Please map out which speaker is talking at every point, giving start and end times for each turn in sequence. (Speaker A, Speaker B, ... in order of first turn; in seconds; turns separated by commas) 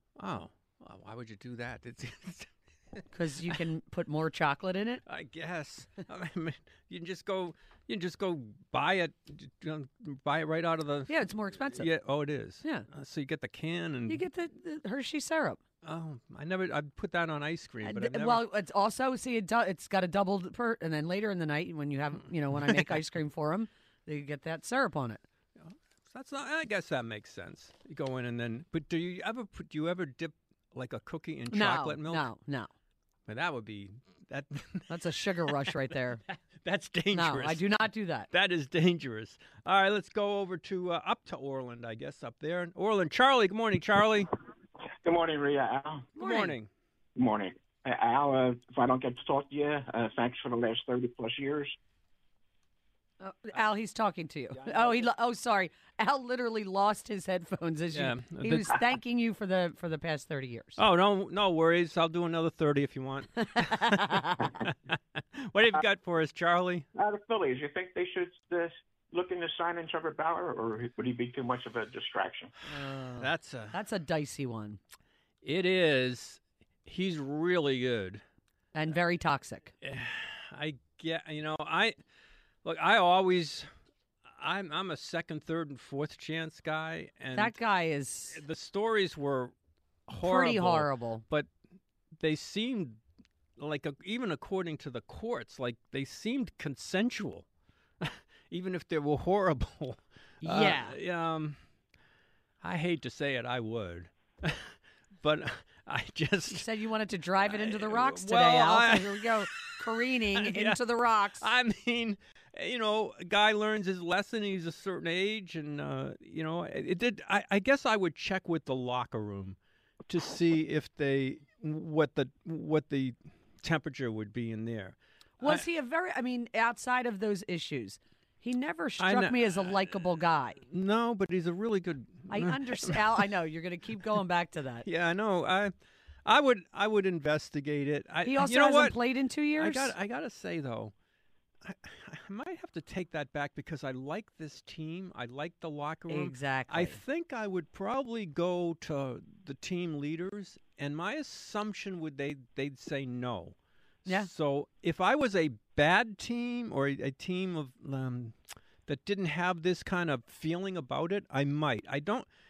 Speaker A: 0.2-3.6, Speaker B: 3.1-5.0, Speaker A: 5.1-14.2, Speaker B: 11.1-11.9, Speaker B: 14.1-15.6, Speaker A: 15.8-18.4, Speaker B: 17.8-25.2, Speaker A: 22.7-23.0, Speaker A: 25.6-32.3, Speaker B: 31.5-32.7, Speaker A: 33.3-44.3, Speaker B: 34.9-36.2, Speaker B: 37.1-38.3, Speaker C: 45.0-46.1, Speaker B: 46.2-46.6, Speaker A: 46.2-46.7, Speaker C: 47.2-51.8, Speaker B: 53.2-60.8, Speaker A: 57.9-58.8, Speaker A: 60.8-66.9, Speaker B: 63.4-64.5, Speaker C: 67.0-72.5, Speaker B: 72.7-74.8, Speaker A: 73.2-73.8, Speaker A: 75.4-78.2, Speaker B: 78.7-79.7, Speaker A: 79.8-82.0, Speaker A: 82.6-83.7, Speaker A: 84.4-87.6, Speaker B: 87.3-88.4, Speaker A: 88.3-89.5, Speaker B: 90.1-91.2, Speaker A: 90.1-91.5, Speaker A: 92.2-93.0, Speaker A: 93.6-97.5, Speaker A: 98.0-101.6, Speaker B: 100.4-101.0, Speaker A: 102.6-106.7, Speaker B: 106.5-111.5, Speaker A: 107.4-110.8, Speaker A: 111.4-119.6, Speaker A: 120.1-125.6, Speaker B: 125.4-130.6, Speaker A: 129.0-129.9, Speaker A: 130.7-133.3, Speaker B: 132.3-134.9, Speaker A: 134.8-135.7, Speaker A: 136.3-139.0, Speaker B: 138.2-139.9, Speaker A: 139.6-140.9, Speaker A: 141.6-158.3, Speaker B: 146.1-147.0, Speaker A: 158.9-162.3